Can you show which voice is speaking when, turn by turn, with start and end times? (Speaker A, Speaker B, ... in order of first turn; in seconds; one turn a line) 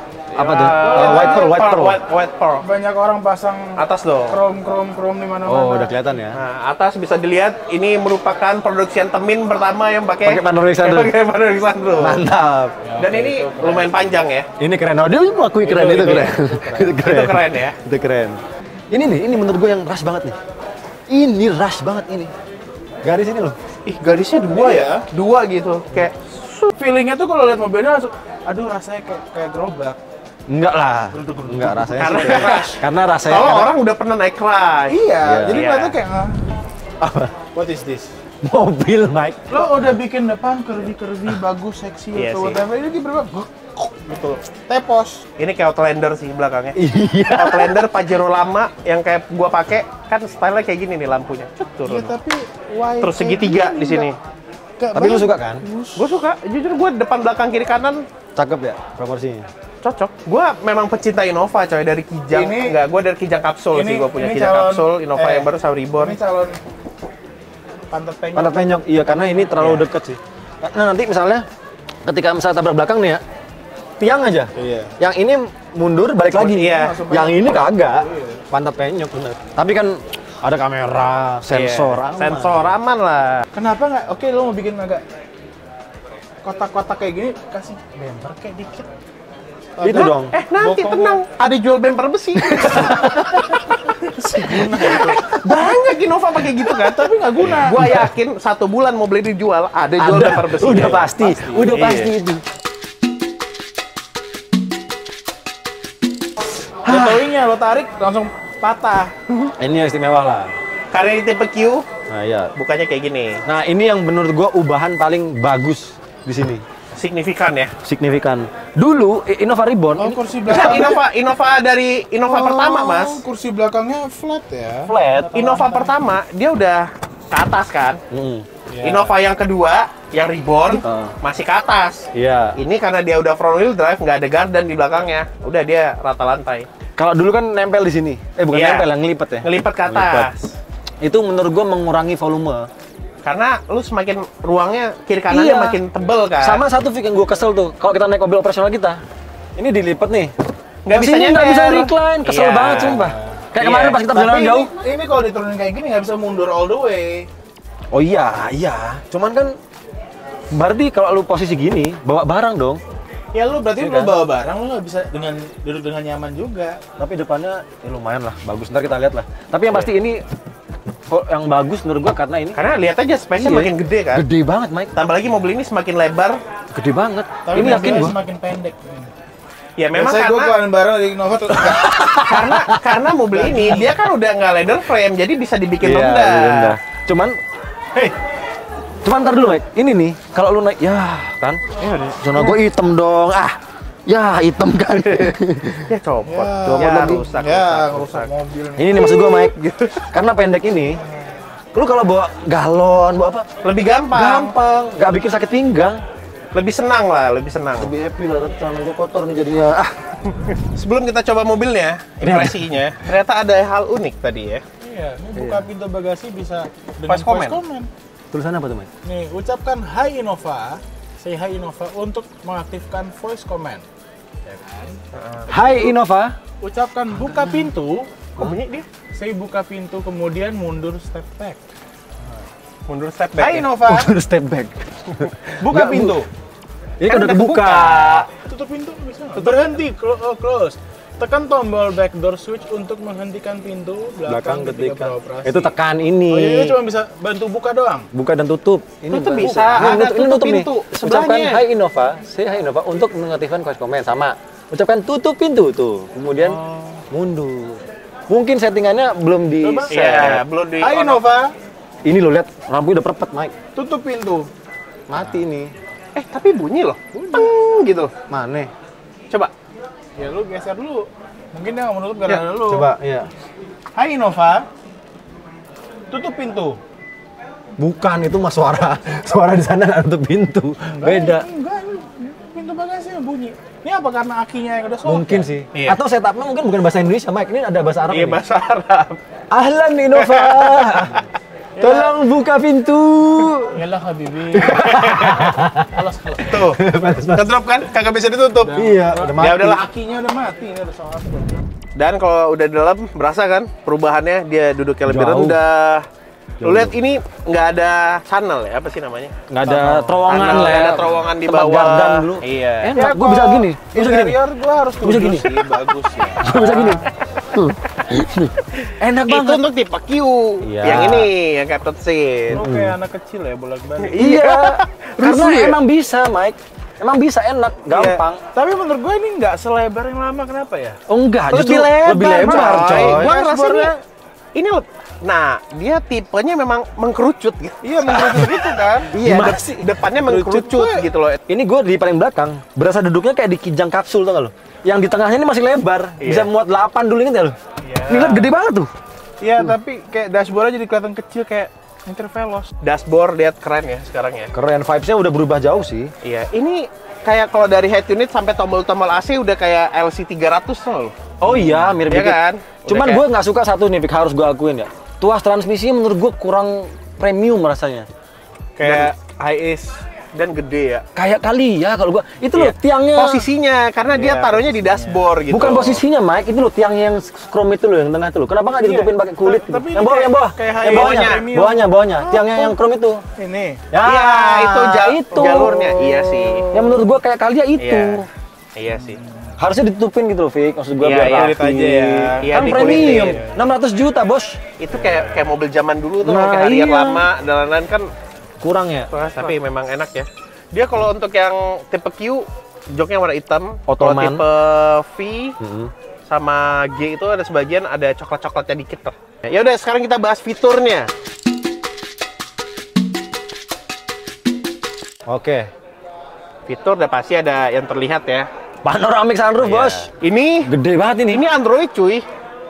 Speaker A: 0.3-2.0
Speaker B: 0.3-2.6
Speaker C: 0.8-1.6
Speaker C: 2.6-6.2
Speaker B: 3.8-4.4
Speaker A: 5.5-6.4
Speaker B: 6.3-12.2
Speaker A: 10.2-11.1
Speaker A: 12.0-12.8
Speaker C: 12.8-13.9
Speaker B: 13.0-14.5
Speaker A: 14.6-18.4
Speaker B: 15.7-17.8
Speaker C: 15.7-16.9
Speaker A: 18.9-20.4
Speaker A: 21.1-22.3
Speaker A: 23.0-23.6
Speaker B: 23.9-26.4
Speaker C: 24.1-25.0
Speaker C: 26.6-30.0
Speaker A: 30.5-33.7
Speaker C: 31.1-32.8
Speaker B: 32.0-36.0
Speaker C: 34.9-36.3
Speaker A: 35.2-35.6
Speaker A: 37.0-37.3
Speaker C: 37.5-38.1
Speaker A: 38.4-39.9
Speaker C: 39.5-45.2
Speaker B: 42.1-42.6
Speaker B: 45.4-46.8
Speaker A: 46.8-47.8
Speaker B: 47.3-52.2
Speaker C: 51.8-54.1
Speaker B: 53.0-54.2
Speaker C: 54.8-56.0
Speaker A: 55.0-55.6
Speaker B: 56.0-58.1
Speaker A: 58.4-59.5
Speaker B: 59.8-66.2
Speaker C: 62.3-62.8
Speaker C: 63.7-66.6
Speaker C: 67.9-69.8
Speaker A: 68.3-71.5
Speaker A: 72.0-73.2
Speaker A: 74.0-82.7
Speaker C: 74.5-74.9
Speaker C: 76.3-78.4
Speaker B: 76.5-77.0
Speaker B: 81.5-83.4
Speaker C: 83.5-85.0
Speaker C: 86.4-88.9
Speaker C: 89.8-91.2
Speaker A: 89.8-90.3
Speaker B: 89.9-93.2
Speaker A: 92.4-93.8
Speaker C: 94.0-95.7
Speaker B: 94.5-102.1
Speaker A: 94.6-95.7
Speaker C: 96.7-98.0
Speaker A: 97.8-98.1
Speaker A: 100.0-102.4
Speaker C: 100.7-102.0
Speaker C: 106.8-109.0
Speaker A: 106.9-107.2
Speaker B: 108.7-109.5
Speaker A: 109.6-110.5
Speaker B: 110.9-111.8
Speaker A: 112.1-112.5
Speaker B: 112.5-113.4
Speaker A: 113.5-116.6
Speaker B: 116.9-117.7
Speaker A: 117.8-120.6
Speaker C: 120.0-121.0
Speaker B: 120.5-123.2
Speaker C: 122.2-126.0
Speaker A: 124.9-125.3
Speaker B: 125.3-128.0
Speaker A: 128.1-128.5
Speaker C: 128.7-129.1
Speaker B: 128.8-136.7
Speaker A: 130.8-131.2
Speaker A: 132.1-132.6
Speaker A: 137.0-140.3
Speaker B: 138.5-138.9
Speaker B: 139.4-140.5
Speaker A: 141.0-142.7
Speaker B: 143.2-146.6
Speaker A: 145.3-145.8
Speaker A: 146.4-149.0
Speaker A: 149.6-150.3
Speaker B: 150.8-153.0
Speaker A: 150.9-154.7
Speaker C: 152.9-157.3
Speaker A: 157.9-159.6
Speaker A: 160.5-162.8
Speaker C: 163.3-166.8
Speaker A: 163.8-164.1
Speaker A: 167.0-170.2
Speaker A: 171.1-172.8
Speaker B: 172.6-174.2
Speaker A: 173.4-174.9
Speaker B: 174.9-176.4
Speaker A: 176.8-178.2
Speaker C: 177.5-179.1
Speaker B: 177.6-178.0
Speaker B: 179.8-180.6
Speaker C: 179.9-182.4
Speaker A: 181.6-182.8
Speaker B: 182.3-186.8
Speaker C: 183.3-184.0
Speaker A: 185.8-187.4
Speaker A: 189.0-195.9
Speaker C: 191.8-192.6
Speaker B: 195.9-198.3
Speaker C: 196.2-199.2
Speaker A: 196.8-197.2
Speaker A: 198.8-199.6
Speaker B: 198.9-200.1
Speaker A: 200.1-201.0
Speaker A: 201.7-203.5
Speaker B: 203.6-204.6
Speaker A: 204.1-206.0
Speaker B: 206.5-207.9
Speaker A: 207.8-210.3
Speaker B: 210.5-214.6
Speaker A: 212.2-212.6
Speaker C: 214.8-217.9
Speaker A: 215.4-215.6
Speaker B: 217.1-217.6
Speaker A: 218.3-218.9
Speaker C: 219.1-223.8
Speaker C: 224.4-225.0
Speaker B: 225.1-225.9
Speaker A: 225.5-226.4
Speaker C: 226.6-228.1
Speaker B: 228.4-228.9
Speaker C: 229.1-231.6
Speaker B: 232.9-233.7
Speaker C: 233.4-234.1
Speaker A: 233.8-236.2
Speaker C: 235.6-236.3
Speaker A: 237.0-238.3
Speaker B: 237.1-238.3
Speaker C: 238.4-245.7
Speaker A: 239.3-239.8
Speaker A: 244.2-246.8
Speaker C: 246.3-248.1
Speaker A: 248.1-256.6
Speaker B: 249.1-251.6
Speaker C: 249.4-249.8
Speaker C: 256.4-257.0
Speaker A: 257.1-260.4
Speaker C: 259.6-261.5
Speaker B: 259.9-261.2
Speaker A: 262.1-263.5
Speaker C: 263.8-264.5
Speaker A: 265.1-265.7
Speaker B: 266.1-268.1
Speaker C: 267.1-267.5
Speaker A: 268.3-268.7
Speaker C: 270.2-272.9
Speaker A: 272.6-273.3
Speaker C: 273.9-274.7
Speaker C: 276.1-276.8
Speaker A: 277.8-281.5
Speaker C: 280.9-285.5
Speaker A: 285.0-288.4
Speaker B: 288.1-289.2
Speaker A: 289.5-291.3
Speaker B: 290.2-291.2
Speaker C: 291.8-292.1
Speaker A: 291.8-293.8
Speaker C: 293.7-296.6
Speaker A: 294.5-296.0
Speaker B: 296.4-296.8
Speaker A: 296.5-297.5
Speaker B: 297.3-298.8
Speaker C: 298.6-301.7
Speaker A: 298.7-299.8
Speaker B: 299.4-299.8
Speaker B: 302.0-306.1
Speaker A: 305.1-305.6
Speaker A: 306.6-306.9
Speaker B: 306.6-312.9
Speaker A: 309.5-314.4
Speaker C: 309.7-310.2
Speaker C: 312.9-317.0
Speaker A: 315.0-315.6
Speaker A: 316.4-319.6
Speaker B: 319.3-322.6
Speaker A: 320.6-321.3
Speaker A: 322.5-322.9
Speaker C: 322.5-324.4
Speaker B: 324.0-325.8
Speaker A: 324.2-328.4
Speaker C: 327.9-331.0
Speaker A: 331.1-333.3
Speaker B: 331.5-333.9
Speaker C: 332.4-334.0
Speaker B: 334.6-338.5
Speaker C: 337.8-339.2
Speaker A: 338.1-338.5
Speaker A: 339.1-339.9
Speaker B: 339.1-341.4
Speaker C: 340.2-341.1
Speaker A: 341.5-347.6
Speaker B: 346.2-346.5
Speaker B: 347.8-348.4
Speaker A: 348.1-348.9
Speaker C: 348.1-348.4
Speaker C: 349.4-352.7
Speaker B: 352.8-354.5
Speaker A: 354.5-356.1
Speaker B: 356.2-363.2
Speaker A: 361.4-368.1
Speaker C: 368.8-369.8
Speaker B: 368.8-371.1
Speaker A: 371.1-373.5
Speaker B: 372.6-376.0
Speaker C: 374.1-375.2
Speaker A: 375.5-383.2
Speaker C: 378.8-382.8
Speaker B: 380.8-381.5
Speaker C: 383.4-383.8
Speaker A: 383.9-388.3
Speaker B: 384.0-386.7
Speaker C: 385.3-387.0
Speaker B: 387.8-388.2
Speaker B: 388.8-389.2
Speaker C: 389.0-389.5
Speaker A: 389.6-394.6
Speaker B: 391.0-391.6
Speaker C: 391.1-393.6
Speaker B: 392.4-393.4
Speaker B: 394.8-398.1
Speaker C: 394.9-395.4
Speaker A: 396.2-397.3
Speaker A: 398.6-399.1
Speaker B: 399.1-405.6
Speaker A: 403.9-404.4
Speaker A: 405.6-405.9
Speaker B: 406.3-411.1
Speaker A: 415.3-415.7
Speaker B: 416.7-418.5
Speaker A: 418.8-420.1
Speaker B: 419.6-420.7
Speaker A: 420.7-421.4
Speaker B: 421.3-422.2